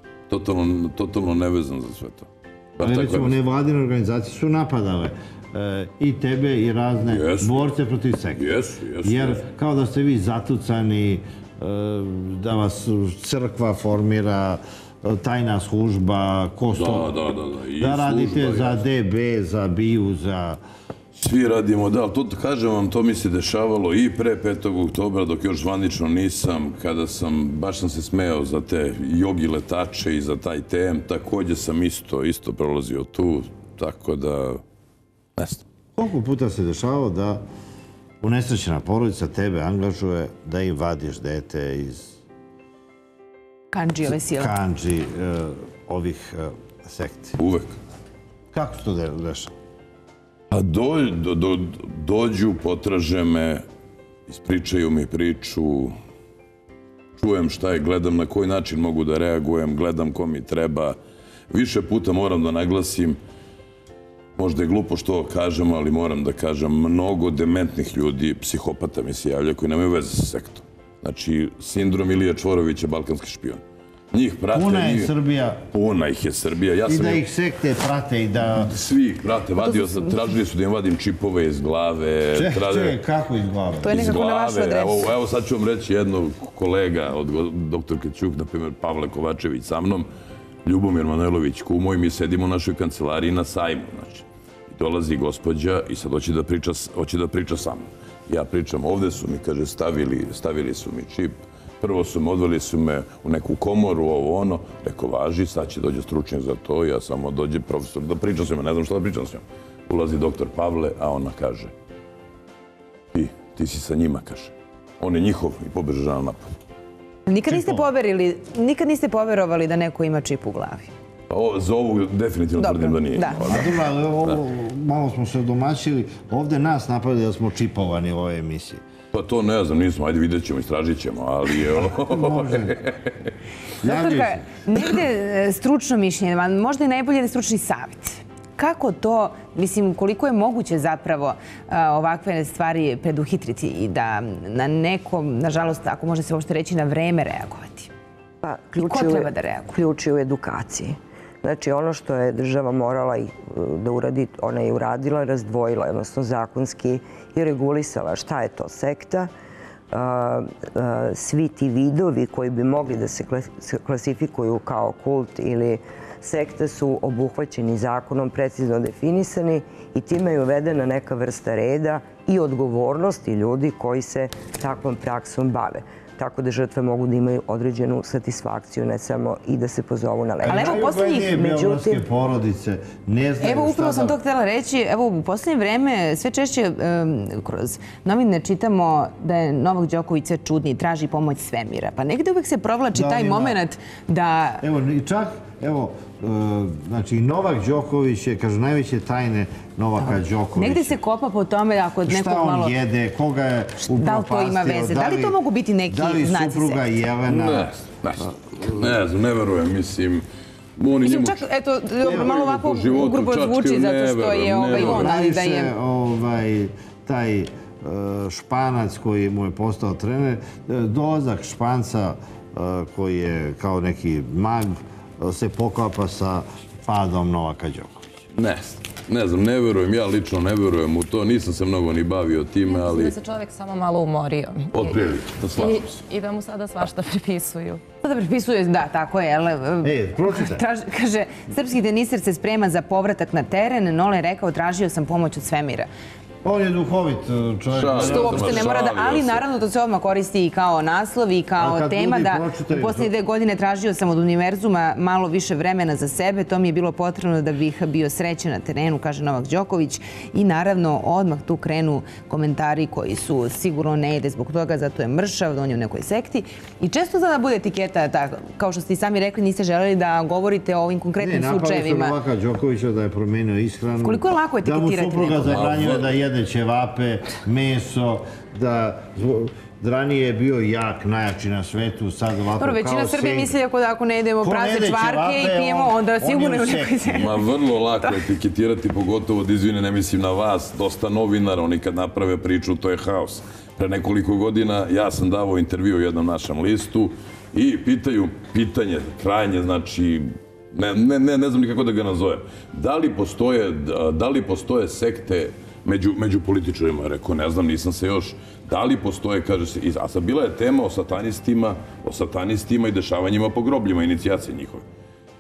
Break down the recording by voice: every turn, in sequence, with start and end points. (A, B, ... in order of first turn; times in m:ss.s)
0:00.3-0:03.4 A
0:02.8-0:08.4 B
0:07.1-0:07.7 A
0:08.4-0:09.4 A
0:09.0-0:17.1 B
0:16.7-0:18.8 A
0:17.8-0:20.6 B
0:21.2-0:34.6 A
0:35.4-0:35.6 A
0:36.0-0:37.4 B
0:38.2-0:42.2 B
0:43.7-0:44.6 C
0:44.1-0:47.4 B
0:47.4-0:47.8 A
0:48.5-0:49.5 B
0:50.5-0:53.6 A
0:54.3-0:55.9 A
0:57.2-1:01.0 A
1:01.5-1:03.2 A
1:04.4-1:15.1 A
1:14.5-1:15.6 B
1:15.7-1:17.2 A
1:16.9-1:18.7 B
1:18.5-1:23.0 A
1:19.6-1:20.2 C
1:22.3-1:24.0 B
1:23.8-1:25.1 C
1:23.8-1:30.1 A
1:30.6-1:51.7 A
1:53.1-1:56.5 A
1:57.3-2:00.9 C
2:01.3-2:04.4 A
2:02.6-2:03.5 C
2:03.4-2:08.8 B
2:09.1-2:13.2 A
2:11.8-2:12.8 B
2:13.8-2:14.4 B
2:13.8-2:27.9 C
2:28.4-2:39.3 D
2:28.8-2:29.8 C
2:39.9-3:02.0 D
3:00.4-3:04.2 B
3:00.4-3:01.3 C
3:03.4-3:14.6 C
3:12.9-3:13.6 B
3:14.6-3:21.0 B
3:20.1-3:22.8 C
3:22.1-3:25.4 B
3:23.9-3:26.8 C
3:25.9-3:27.7 B
3:27.3-3:30.2 A
3:30.8-3:31.4 A
3:31.0-3:35.7 C
3:32.0-3:35.1 A
3:32.0-3:32.4 B
3:34.7-3:48.1 B
3:48.4-3:53.2 A
3:52.6-3:57.8 E
3:54.7-3:56.0 A
3:58.0-4:05.9 C
3:59.8-4:00.6 B
4:06.4-4:08.7 B
4:07.7-4:09.4 A
4:08.0-4:32.2 C
4:11.6-4:13.1 B
4:31.2-4:43.6 B
4:34.0-4:35.6 C
4:35.5-4:36.1 A
4:42.6-4:47.4 C
4:44.4-4:47.3 B
4:47.1-5:14.8 A